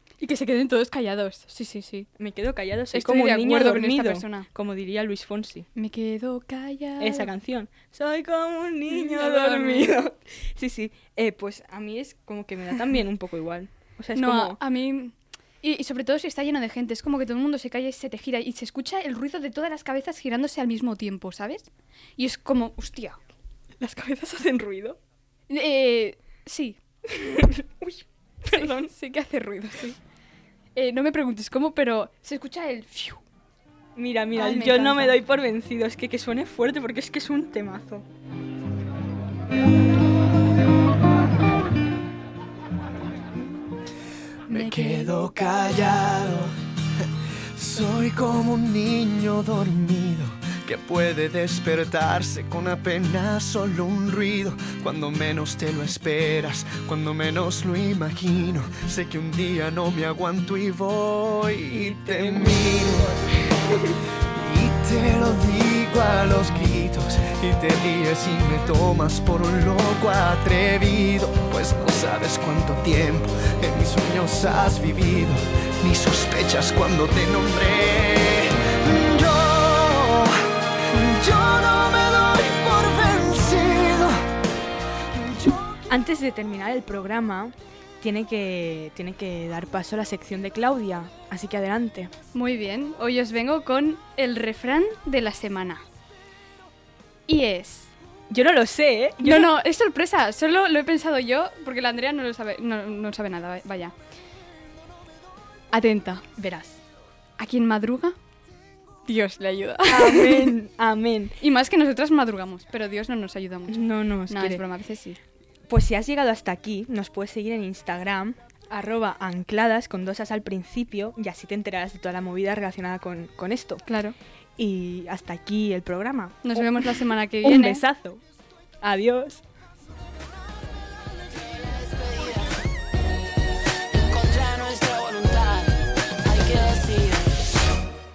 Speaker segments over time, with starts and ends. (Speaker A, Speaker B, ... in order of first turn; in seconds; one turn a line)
Speaker A: 0.2-2.1
Speaker B: 2.2-5.7
Speaker A: 2.9-4.5
Speaker A: 5.8-7.3
Speaker B: 7.0-14.6
Speaker A: 8.9-10.0
Speaker A: 14.1-23.2
Speaker B: 23.8-25.0
Speaker A: 25.5-26.8
Speaker B: 27.1-28.9
Speaker A: 28.5-30.0
Speaker A: 30.8-33.2
Speaker B: 34.0-38.0
Speaker A: 34.4-35.2
Speaker C: 44.5-46.5
Speaker A: 44.5-45.3
Speaker C: 47.6-63.2
Speaker B: 62.1-62.5
Speaker C: 63.7-84.2
Speaker C: 85.1-85.8
Speaker B: 85.9-92.1
Speaker A: 92.3-95.8
Speaker A: 97.3-97.9
Speaker B: 98.3-99.5
Speaker A: 99.2-103.9
Speaker A: 105.7-106.2
Speaker B: 106.4-106.8
Speaker A: 107.4-108.2
Speaker A: 109.1-110.5
Speaker B: 109.9-111.4
Speaker A: 111.4-115.2
Speaker B: 113.7-114.6
Speaker B: 115.7-123.8
Speaker A: 123.9-124.1
Speaker B: 124.6-128.2
Speaker A: 126.4-127.8
Speaker B: 128.8-129.4
Speaker D: 131.3-137.7